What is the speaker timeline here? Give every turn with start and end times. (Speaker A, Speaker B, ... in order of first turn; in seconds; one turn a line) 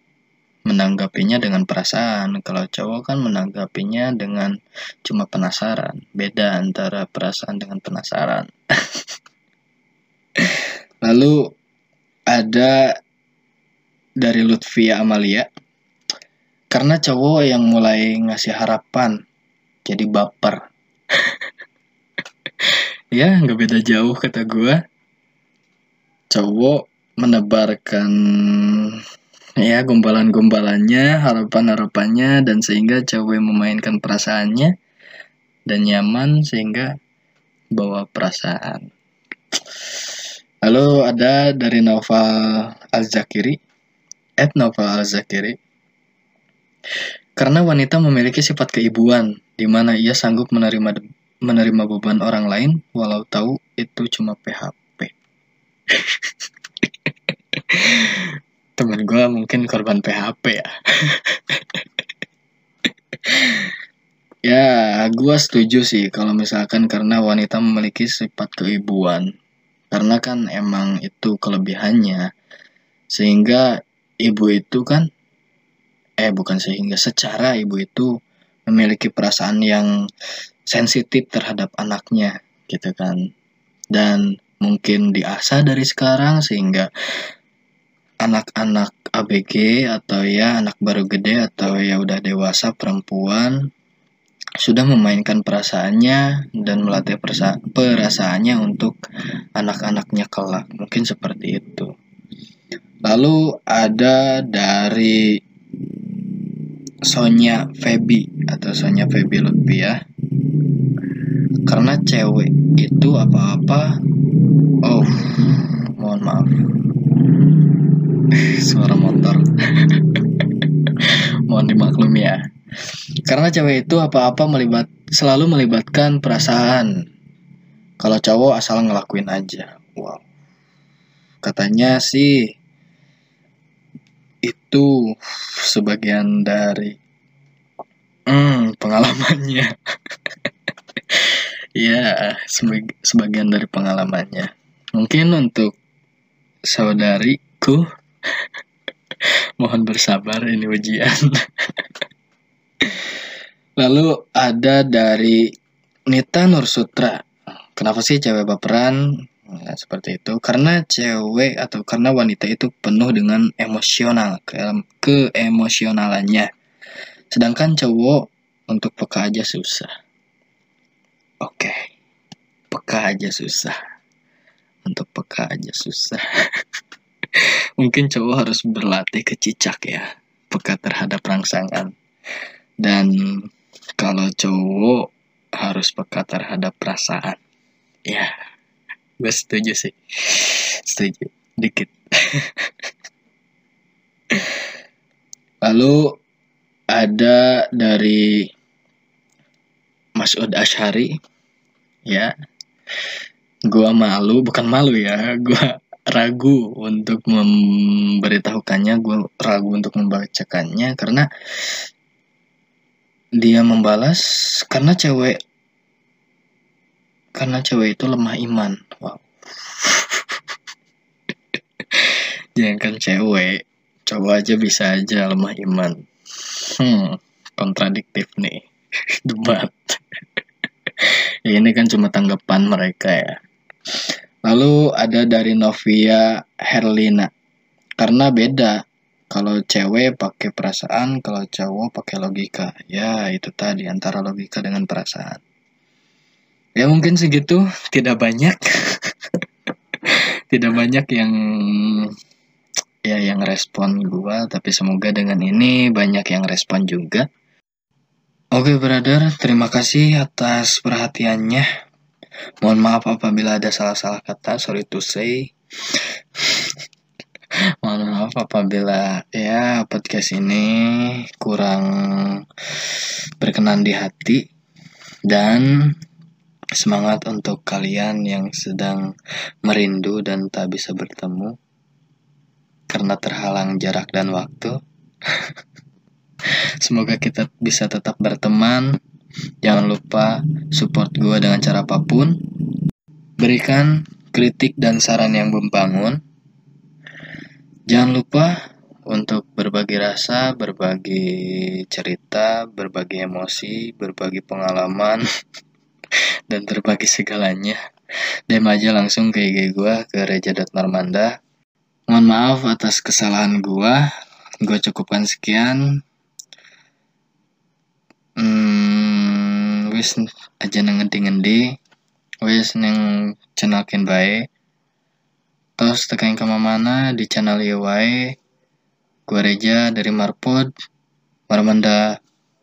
Speaker A: 0.7-4.5
Speaker A: 5.0-9.0
Speaker A: 10.4-11.5
Speaker A: 12.3-12.9
Speaker A: 14.2-15.5
Speaker A: 16.7-19.2
Speaker A: 19.9-20.6
Speaker A: 22.7-24.8
Speaker A: 26.3-29.0
Speaker A: 29.6-34.7
Speaker A: 35.7-36.9
Speaker A: 37.7-38.9
Speaker A: 39.8-40.1
Speaker A: 40.6-43.6
Speaker A: 44.4-45.6
Speaker A: 47.4-55.1
Speaker A: 55.9-56.3
Speaker A: 57.7-61.8
Speaker A: 63.2-63.7
Speaker A: 64.4-69.3
Speaker A: 69.9-72.3
Speaker A: 73.1-75.1
Speaker A: 76.2-78.1
Speaker A: 78.7-79.9
Speaker A: 80.7-83.2
Speaker A: 83.9-86.9
Speaker A: 88.2-93.7
Speaker A: 94.6-98.9
Speaker A: 99.5-101.9
Speaker A: 103.1-105.4
Speaker A: 107.1-110.0
Speaker A: 111.7-114.0
Speaker A: 114.8-116.7
Speaker A: 118.4-122.4
Speaker A: 123.2-127.0
Speaker A: 128.0-130.2
Speaker A: 131.4-132.5
Speaker A: 134.4-136.9
Speaker A: 138.3-139.7
Speaker A: 141.1-145.8
Speaker A: 146.7-147.8
Speaker A: 149.6-151.9
Speaker A: 152.8-153.2
Speaker A: 153.8-155.5
Speaker A: 156.1-166.5
Speaker A: 167.3-169.9
Speaker A: 171.4-171.9
Speaker A: 172.7-173.8
Speaker A: 174.8-176.6
Speaker A: 177.3-181.9
Speaker A: 182.8-187.4
Speaker A: 189.2-192.7
Speaker A: 194.3-194.6
Speaker A: 195.6-196.2
Speaker A: 196.9-198.5
Speaker A: 200.2-201.1
Speaker A: 202.1-202.3
Speaker A: 203.7-211.8
Speaker A: 213.4-215.4
Speaker A: 217.4-220.4
Speaker A: 221.9-228.7
Speaker A: 229.2-230.0
Speaker A: 231.0-233.4
Speaker A: 234.4-237.3
Speaker A: 238.0-245.4
Speaker A: 246.8-249.1
Speaker A: 250.0-252.1
Speaker A: 253.1-257.3
Speaker A: 258.5-261.7
Speaker A: 262.6-266.7
Speaker A: 267.8-274.4
Speaker A: 275.2-275.9
Speaker A: 276.8-279.1
Speaker A: 279.6-281.5
Speaker A: 282.9-284.8
Speaker A: 286.8-289.0
Speaker A: 289.6-292.4
Speaker A: 293.4-296.2
Speaker A: 297.9-298.6
Speaker A: 299.1-305.2
Speaker A: 306.5-307.8
Speaker A: 308.5-311.3
Speaker A: 312.1-314.0
Speaker A: 314.6-316.0
Speaker A: 318.4-321.7
Speaker A: 322.4-324.5
Speaker A: 325.8-328.4
Speaker A: 329.3-330.7
Speaker A: 331.5-332.2